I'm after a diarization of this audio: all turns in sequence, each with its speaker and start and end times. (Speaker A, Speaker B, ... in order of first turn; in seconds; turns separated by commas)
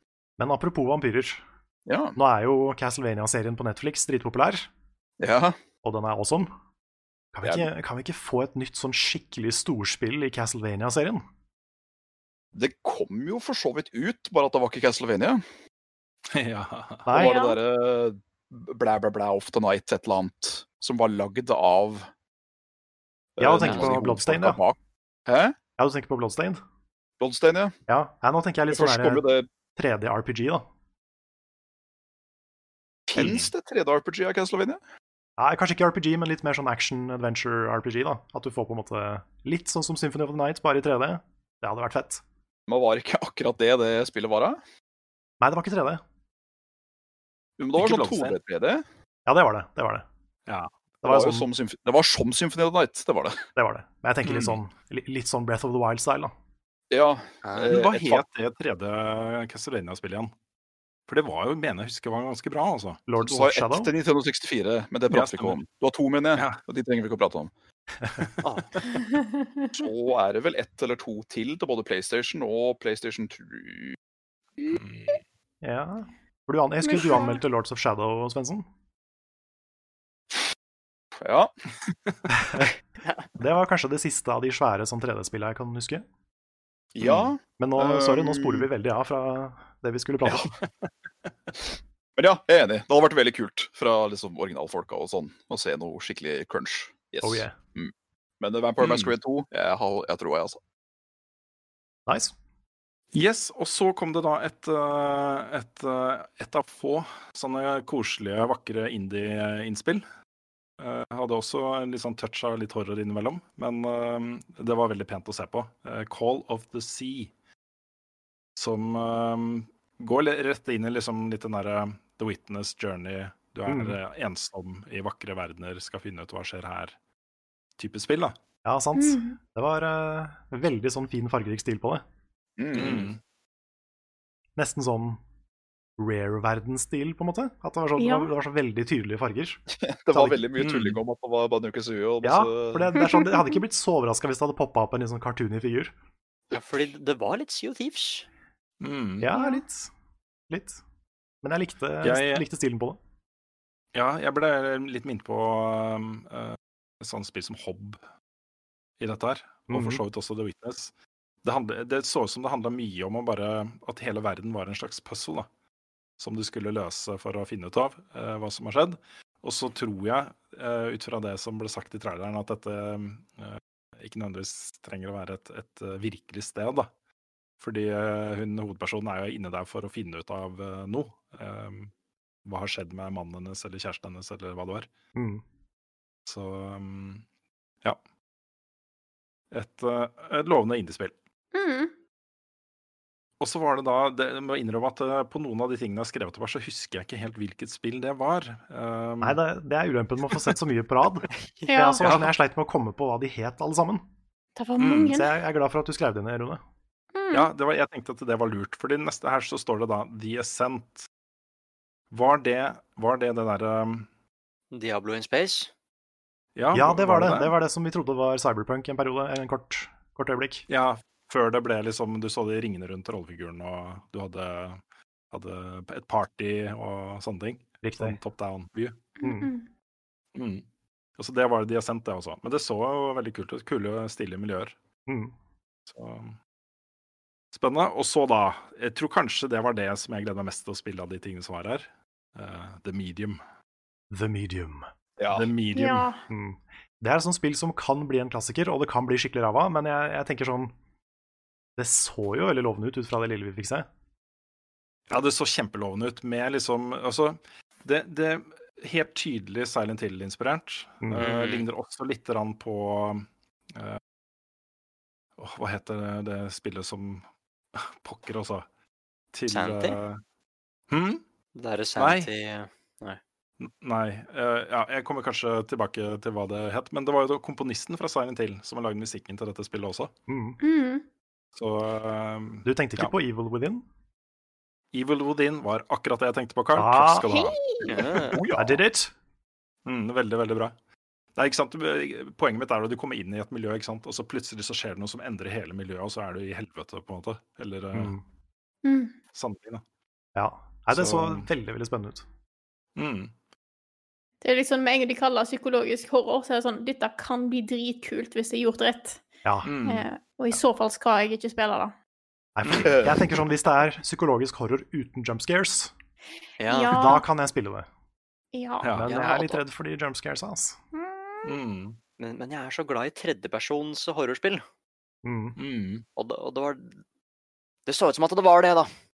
Speaker A: 0.4-1.4, Speaker B: 1.9-2.2, Speaker A: 2.1-4.7, Speaker B: 5.2-5.6, Speaker A: 5.8-6.5, Speaker A: 7.3-11.2, Speaker B: 12.5-15.4, Speaker C: 16.3-17.1, Speaker A: 17.1-17.4, Speaker B: 17.1-22.1, Speaker D: 17.1-17.6, Speaker B: 23.4-25.5, Speaker A: 23.4-24.6, Speaker E: 23.6-23.9, Speaker A: 25.8-26.6, Speaker B: 27.2-27.7, Speaker A: 27.9-30.6, Speaker B: 28.7-29.5, Speaker B: 33.1-34.8, Speaker C: 33.1-33.5, Speaker A: 35.4-42.2, Speaker B: 42.7-44.6, Speaker A: 45.4-46.0, Speaker B: 47.6-48.8, Speaker C: 47.8-48.4, Speaker A: 49.2-50.0, Speaker A: 51.0-51.5, Speaker B: 51.0-53.4, Speaker A: 53.5-56.3, Speaker C: 54.2-54.6, Speaker B: 56.9-58.2, Speaker C: 57.6-60.3, Speaker C: 61.1-63.0, Speaker A: 63.1-63.9, Speaker B: 63.2-67.5, Speaker C: 65.1-65.6, Speaker E: 68.4-69.0, Speaker D: 69.0-69.7, Speaker B: 69.8-74.0, Speaker C: 74.7-75.2, Speaker A: 75.6-78.7, Speaker D: 76.8-77.4, Speaker B: 81.2-81.5, Speaker A: 82.3-82.7, Speaker A: 83.4-86.0, Speaker B: 86.9-88.7, Speaker C: 87.0-87.3, Speaker A: 87.6-90.5, Speaker B: 92.2-100.6, Speaker A: 97.2-97.6, Speaker C: 98.8-99.1, Speaker A: 102.1-102.3, Speaker C: 103.1-110.0, Speaker C: 110.8-117.3, Speaker C: 118.5-127.0, Speaker A: 123.7-124.0, Speaker C: 127.8-128.3, Speaker A: 128.6-132.0, Speaker D: 128.9-129.4, Speaker B: 132.6-133.1, Speaker C: 132.7-133.2, Speaker A: 134.6-135.2, Speaker A: 136.0-140.4, Speaker D: 138.0-138.3, Speaker B: 139.9-142.9, Speaker C: 140.6-141.0, Speaker A: 142.2-145.9, Speaker D: 142.9-143.6, Speaker E: 146.5-148.3, Speaker C: 148.8-149.3, Speaker A: 149.2-149.9, Speaker D: 149.3-149.6, Speaker A: 150.5-150.8, Speaker A: 151.4-153.0, Speaker C: 152.0-152.4, Speaker C: 153.9-158.0, Speaker C: 159.0-160.9, Speaker A: 159.7-160.0, Speaker C: 161.4-165.5, Speaker C: 166.2-176.9, Speaker C: 177.6-181.9, Speaker C: 182.4-184.9, Speaker A: 185.1-185.4, Speaker C: 186.2-187.2, Speaker C: 189.5-191.1, Speaker D: 191.5-191.9, Speaker C: 193.4-199.4, Speaker A: 199.2-204.0, Speaker D: 201.7-202.0, Speaker C: 202.0-202.3, Speaker D: 204.6-205.3, Speaker C: 204.8-205.1, Speaker A: 205.1-206.6, Speaker D: 207.1-207.5, Speaker C: 207.3-211.1, Speaker C: 212.1-214.1, Speaker E: 214.7-215.7, Speaker C: 216.6-217.5, Speaker A: 216.7-220.6, Speaker C: 220.7-224.8, Speaker C: 225.3-228.9, Speaker A: 227.8-228.2, Speaker D: 229.2-229.7, Speaker A: 229.2-229.5, Speaker C: 230.3-230.6, Speaker C: 231.2-234.7, Speaker A: 235.1-235.3, Speaker C: 235.9-236.4, Speaker C: 237.5-243.4, Speaker A: 244.1-244.9, Speaker B: 245.2-245.5, Speaker C: 245.3-246.1, Speaker D: 245.7-246.2, Speaker A: 246.3-250.7, Speaker A: 251.8-253.9, Speaker C: 255.1-264.0, Speaker A: 261.0-261.3, Speaker E: 261.2-261.7, Speaker C: 265.4-267.2, Speaker C: 267.7-268.6, Speaker C: 269.3-270.2, Speaker E: 269.5-270.0, Speaker C: 270.9-271.2, Speaker E: 271.5-273.2, Speaker C: 271.9-272.3, Speaker C: 273.6-280.1, Speaker A: 280.3-280.6, Speaker D: 280.6-281.0, Speaker C: 281.6-283.1, Speaker A: 282.6-283.8, Speaker C: 284.9-287.6, Speaker A: 286.7-287.3, Speaker D: 287.3-287.9, Speaker E: 287.8-288.4, Speaker B: 288.2-288.8, Speaker A: 288.5-289.1, Speaker C: 289.8-290.7, Speaker C: 291.4-298.1, Speaker A: 297.9-298.2, Speaker D: 298.8-299.1, Speaker C: 299.3-299.8, Speaker A: 300.3-302.2, Speaker C: 300.9-301.5, Speaker C: 302.9-303.3, Speaker D: 304.4-309.2, Speaker A: 309.4-309.7, Speaker C: 309.6-310.1, Speaker D: 309.8-311.9, Speaker A: 312.6-315.9, Speaker B: 312.8-313.2, Speaker E: 316.6-317.2, Speaker D: 316.7-317.2, Speaker A: 316.9-317.9, Speaker D: 318.5-318.9, Speaker C: 318.8-319.1, Speaker A: 318.9-320.8, Speaker E: 319.0-319.6, Speaker D: 320.9-321.5, Speaker C: 321.4-322.0, Speaker E: 322.2-324.6, Speaker A: 325.2-325.6, Speaker C: 325.6-326.0, Speaker E: 326.1-327.0, Speaker E: 327.9-328.9